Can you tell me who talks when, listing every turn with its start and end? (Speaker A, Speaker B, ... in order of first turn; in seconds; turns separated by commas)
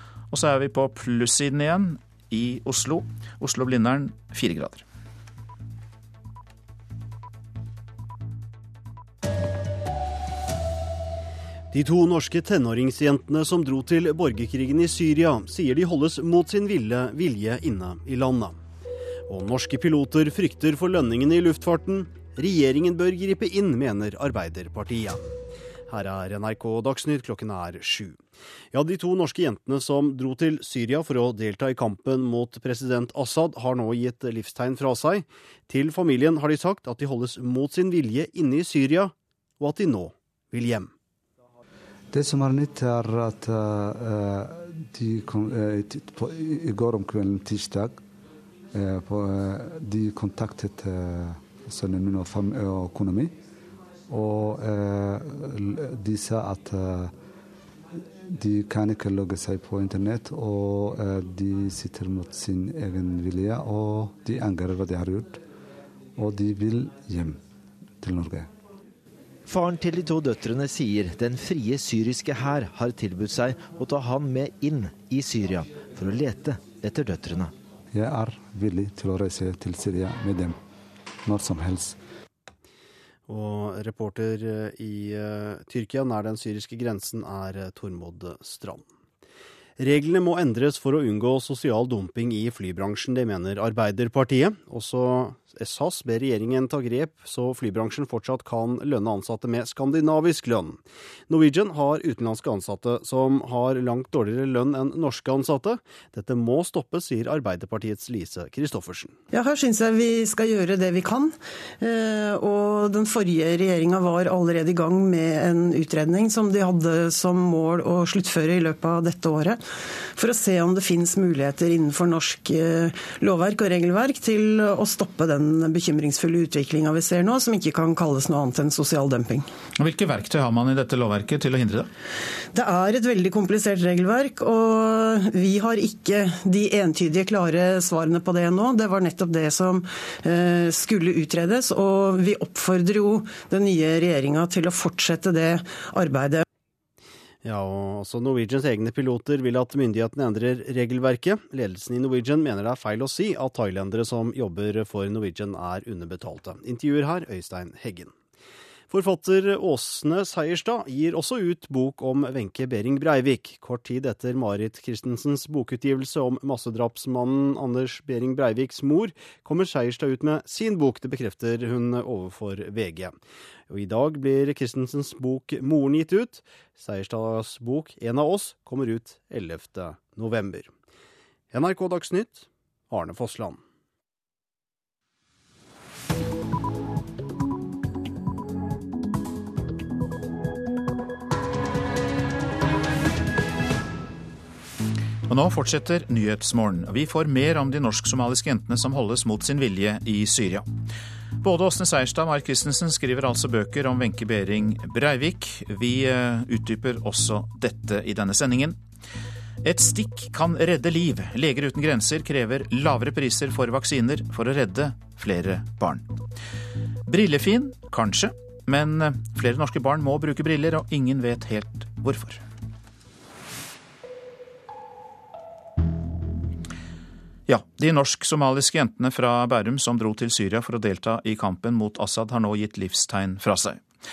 Speaker A: 0.3-4.8, Speaker B: 11.7-18.6, Speaker B: 19.3-25.4, Speaker B: 25.9-28.2, Speaker B: 28.7-40.9, Speaker C: 42.1-48.0, Speaker C: 48.7-53.3, Speaker C: 54.1-57.1, Speaker C: 58.3-65.4, Speaker C: 66.2-67.4, Speaker C: 68.0-68.5, Speaker D: 69.5-77.5, Speaker C: 77.9-80.6, Speaker C: 81.2-82.0, Speaker B: 83.3-88.9, Speaker B: 89.8-109.2, Speaker E: 109.3-119.6, Speaker E: 120.2-129.5, Speaker A: 129.8-131.9, Speaker E: 132.5-146.4, Speaker B: 147.4-158.1, Speaker B: 158.9-173.2, Speaker B: 173.7-180.7, Speaker B: 181.5-183.6, Speaker A: 195.3-200.7, Speaker A: 201.4-208.8, Speaker A: 209.6-216.1, Speaker A: 217.1-222.4, Speaker A: 227.5-233.8